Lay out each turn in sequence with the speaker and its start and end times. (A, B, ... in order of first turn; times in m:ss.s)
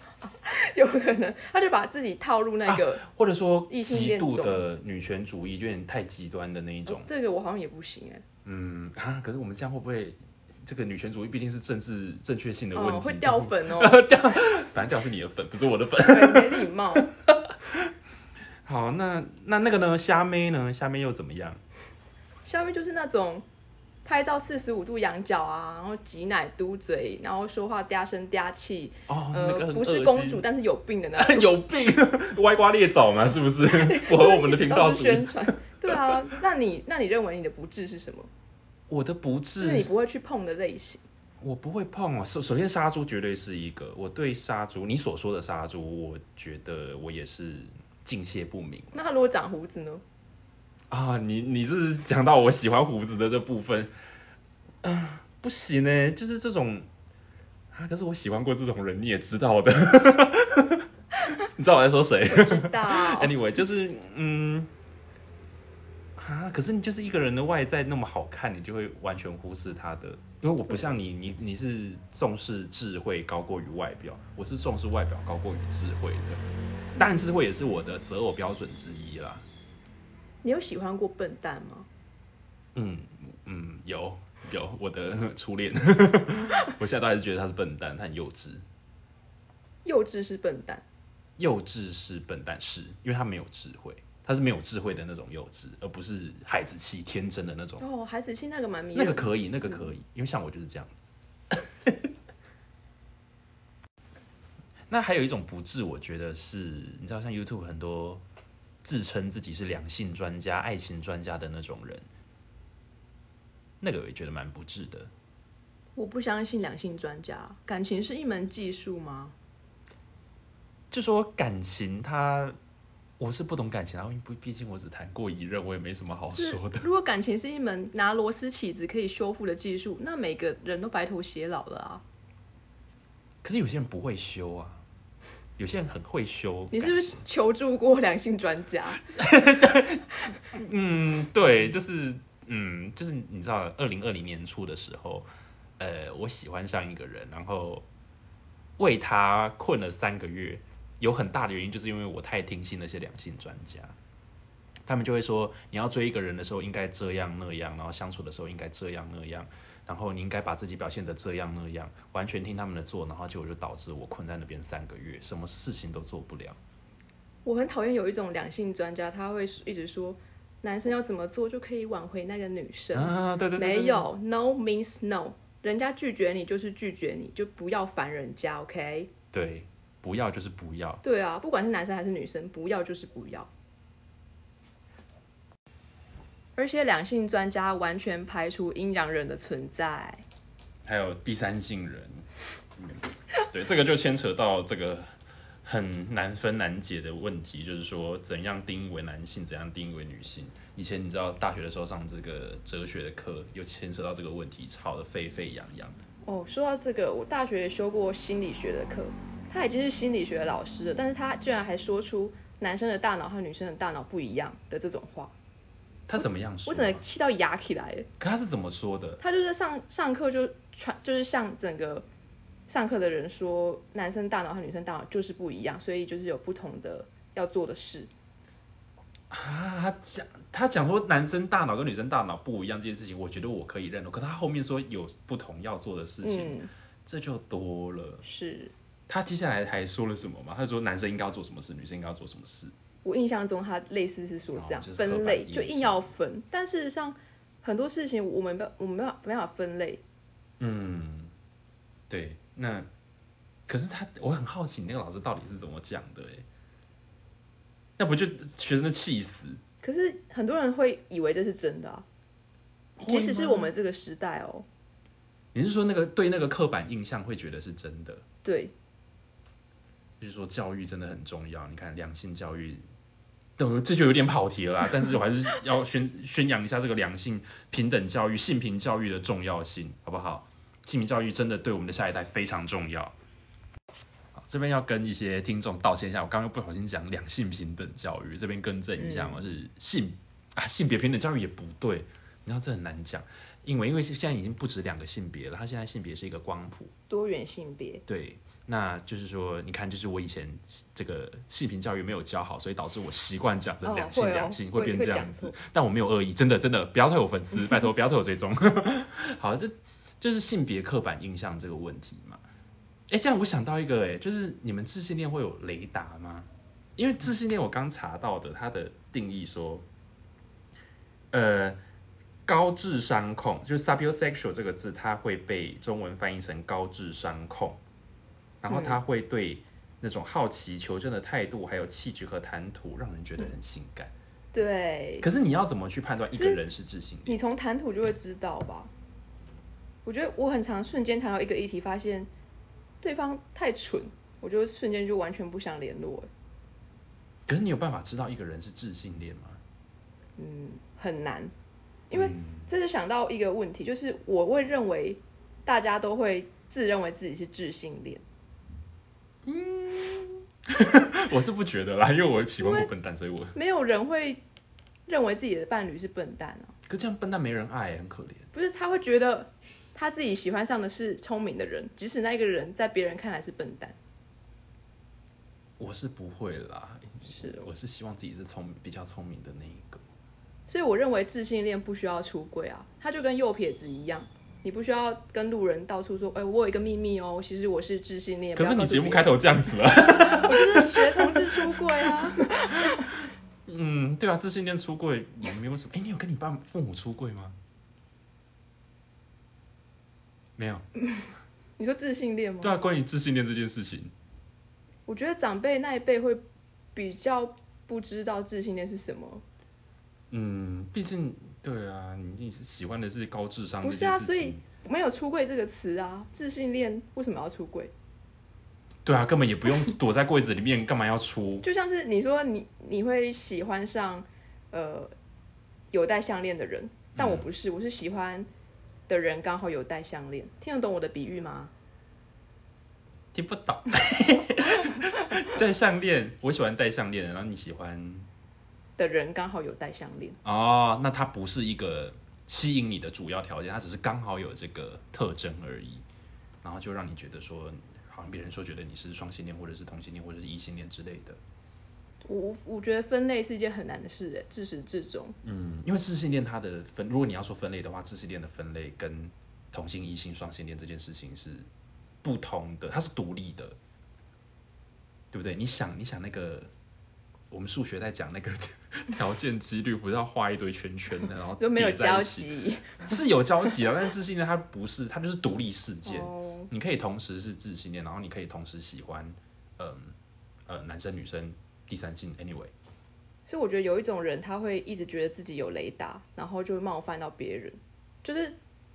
0:00.2-0:03.0 A
0:02.7-0:07.1 B
0:03.7-0:04.6 A
0:06.9-0:08.2 A
0:08.4-0:17.9 B
0:12.7-0:14.0 A
0:16.1-0:17.1 A
0:18.6-0:21.6 B
0:22.4-0:23.4 A
0:24.0-0:31.5 A
0:29.1-0:30.4 B
0:31.2-0:36.2 B
0:33.7-0:38.3 A
0:38.9-0:39.9 B
0:39.6-0:41.0 A
0:41.4-0:49.0 B
0:48.9-0:50.0 A
0:50.9-0:53.9 B
0:54.8-0:56.9 B
0:57.7-1:00.8 B
1:01.4-1:04.7 B
1:02.3-1:03.4 A
1:06.2-1:16.4 B
1:10.7-1:10.9 A
1:17.0-1:19.4 B
1:17.0-1:17.3 A
1:20.4-1:21.9 A
1:22.8-1:28.6 B
1:29.8-1:30.8 A
1:31.4-1:37.8 B
1:37.8-1:39.9 A
1:39.0-1:42.1 B
1:44.9-1:48.2 B
1:48.8-1:52.0 B
1:53.8-1:55.1 B
1:56.0-1:59.4 A
2:00.9-2:02.6 B
2:03.2-2:06.9 B
2:06.3-2:12.0 A
2:13.4-2:14.8 B
2:15.6-2:17.1 B
2:16.7-2:19.0 A
2:19.1-2:25.3 B
2:25.8-2:27.9 B
2:28.8-2:34.0 B
2:34.9-2:46.6 B
2:47.4-2:59.1 A
2:52.9-2:54.1 B
2:59.3-3:01.0 B
3:01.0-3:03.5 A
3:06.6-3:10.2 A
3:10.8-3:12.2 B
3:12.8-3:15.1 B
3:15.6-3:26.0 B
3:26.2-3:35.3 A
3:36.1-3:37.0 B
3:36.7-3:38.1 A
3:38.2-3:39.2 B
3:39.2-3:42.1 A
3:42.7-3:48.1 A
3:49.3-3:58.2 B
3:56.2-3:56.7 A
3:58.2-3:58.7 A
3:59.1-4:02.7 B
4:03.0-4:10.0 A
4:04.5-4:06.1 B
4:10.6-4:11.3 B
4:12.1-4:12.9 B
4:13.7-4:16.5 B
4:18.0-4:19.6 B
4:19.8-4:22.1 A
4:23.0-4:23.7 B
4:23.0-4:24.7 A
4:25.5-4:28.2 B
4:28.4-4:28.7 A
4:30.2-4:32.8 B
4:33.6-4:43.1 B
4:44.3-4:56.9 B
4:49.0-4:49.4 A
4:57.1-4:58.0 A
4:58.1-5:12.4 B
5:03.8-5:05.6 A
5:13.1-5:19.8 B
5:21.3-5:21.8 B
5:22.5-5:27.8 B
5:28.6-5:34.1 B
5:28.7-5:29.0 A
5:34.5-5:35.3 A
5:35.2-5:37.4 B
5:36.3-5:36.6 A
5:37.3-5:38.9 A
5:40.0-5:42.3 A
5:43.0-5:46.3 A
5:47.5-5:49.6 B
5:50.4-5:51.5 A
5:52.1-5:58.2 A
5:52.1-5:52.7 B
5:59.4-6:03.6 B
6:02.6-6:02.9 A
6:03.5-6:04.4 A
6:05.1-6:06.7 A
6:06.9-6:08.5 B
6:08.5-6:14.0 A
6:15.8-6:20.0 B
6:17.2-6:17.7 A
6:20.7-6:29.3 A
6:28.6-6:37.6 B
6:30.2-6:33.1 A
6:40.6-6:40.8 B
6:41.8-6:42.8 A
6:42.6-6:44.1 B
6:45.1-6:46.4 A
6:47.0-6:49.4 A
6:50.3-6:54.6 B
6:53.8-6:57.9 A
6:59.0-7:01.6 B
7:01.6-7:05.1 A
7:05.9-7:08.5 A
7:07.2-7:07.5 B
7:09.1-7:11.7 A
7:13.3-7:18.3 B
7:19.0-7:20.4 A
7:20.4-7:26.0 B
7:26.6-7:31.4 B
7:32.3-7:35.4 A
7:35.4-7:41.7 B
7:42.2-7:43.8 B
7:45.3-7:46.7 B
7:47.5-7:52.5 B
7:51.6-7:53.0 A
7:53.0-8:00.1 B
7:56.1-7:56.7 A
8:00.7-8:02.7 B
8:03.5-8:08.6 A